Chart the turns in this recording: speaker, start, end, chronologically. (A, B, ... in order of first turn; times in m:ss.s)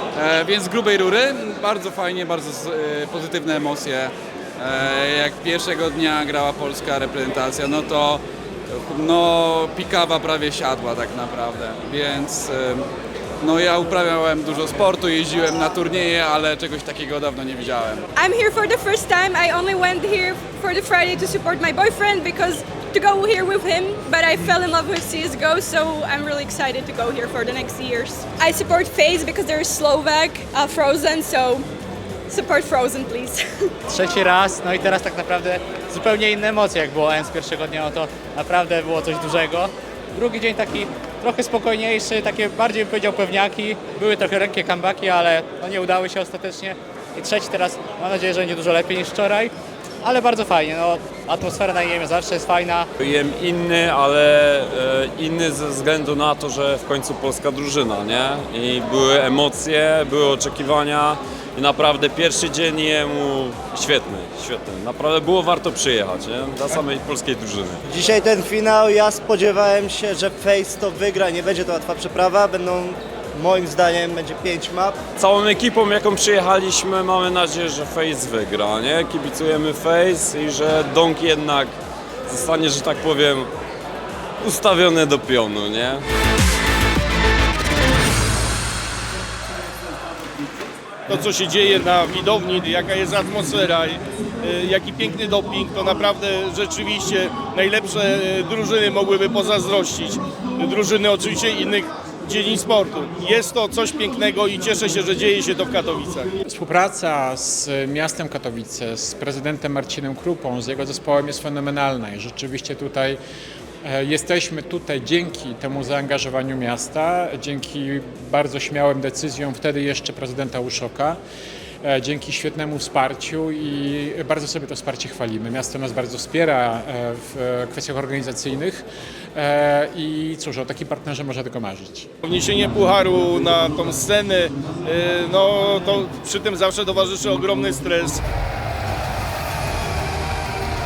0:00.2-0:12.9 A
0:13.4-0:18.1 A
0:18.2-0:31.7 B
0:32.3-0:33.7 B
0:33.9-0:49.5 C
0:50.0-0:52.9 C
0:53.0-1:07.8 D
1:07.9-1:15.0 E
1:15.2-1:21.8 D
1:22.3-1:23.5 D
1:24.4-1:26.0 D
1:31.1-1:46.3 F
1:46.4-1:53.2 G
1:53.8-2:01.2 G
2:01.8-2:12.1 G
2:12.2-2:18.2 F